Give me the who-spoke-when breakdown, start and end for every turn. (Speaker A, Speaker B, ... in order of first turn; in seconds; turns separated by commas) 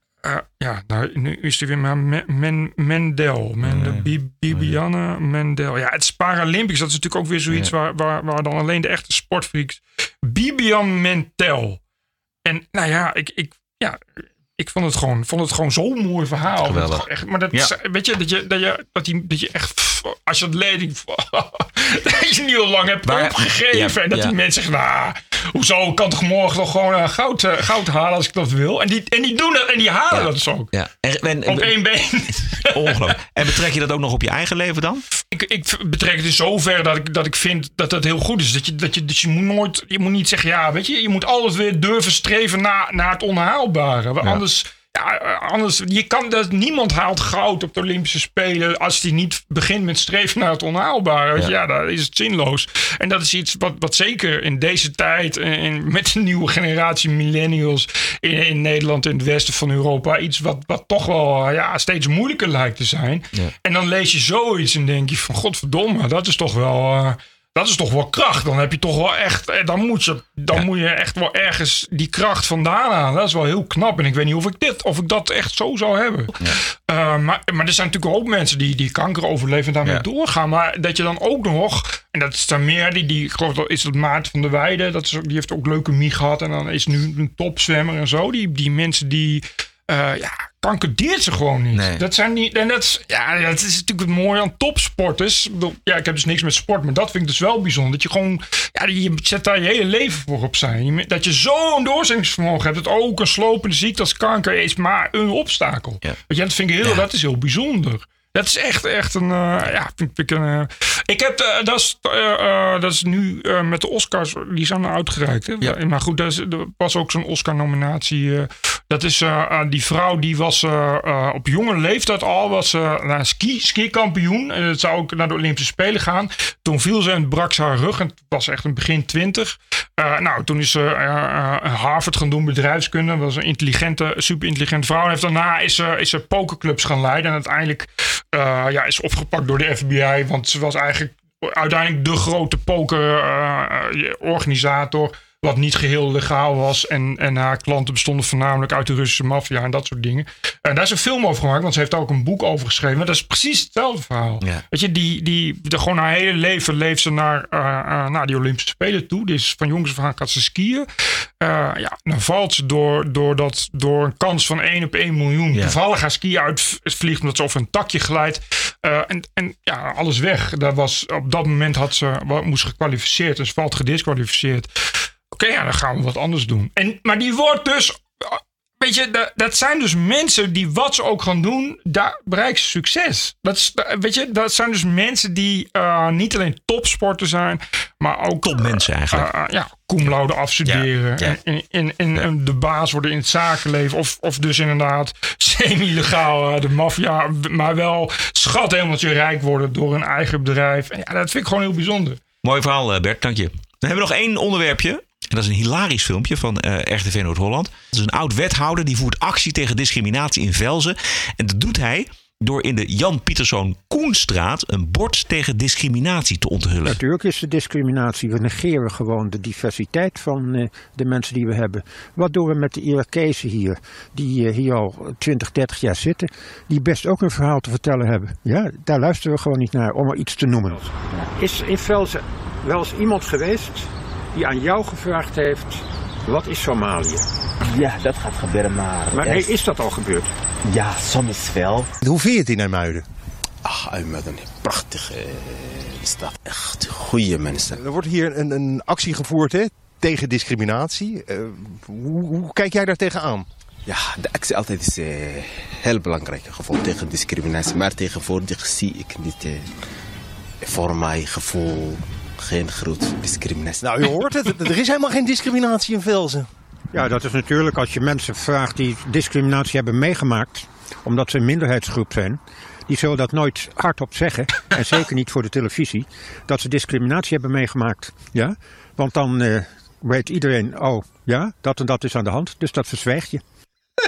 Speaker A: 0.2-11.8, Speaker B: 3.6-4.7, Speaker A: 12.4-30.7, Speaker B: 16.6-17.7, Speaker B: 23.1-24.3, Speaker B: 30.1-31.8, Speaker A: 31.5-33.0, Speaker B: 32.7-35.0, Speaker A: 35.3-160.9, Speaker B: 91.7-92.0, Speaker A: 161.4-174.7, Speaker A: 175.3-202.2, Speaker B: 188.4-189.3, Speaker B: 190.7-191.3, Speaker B: 202.4-217.0, Speaker C: 216.8-237.3, Speaker D: 237.7-239.5, Speaker C: 239.1-240.3, Speaker D: 240.7-241.9, Speaker E: 242.0-243.0, Speaker D: 243.7-247.8, Speaker E: 247.8-253.4, Speaker D: 253.9-259.7, Speaker D: 260.6-263.9, Speaker E: 263.8-266.5, Speaker C: 266.9-283.4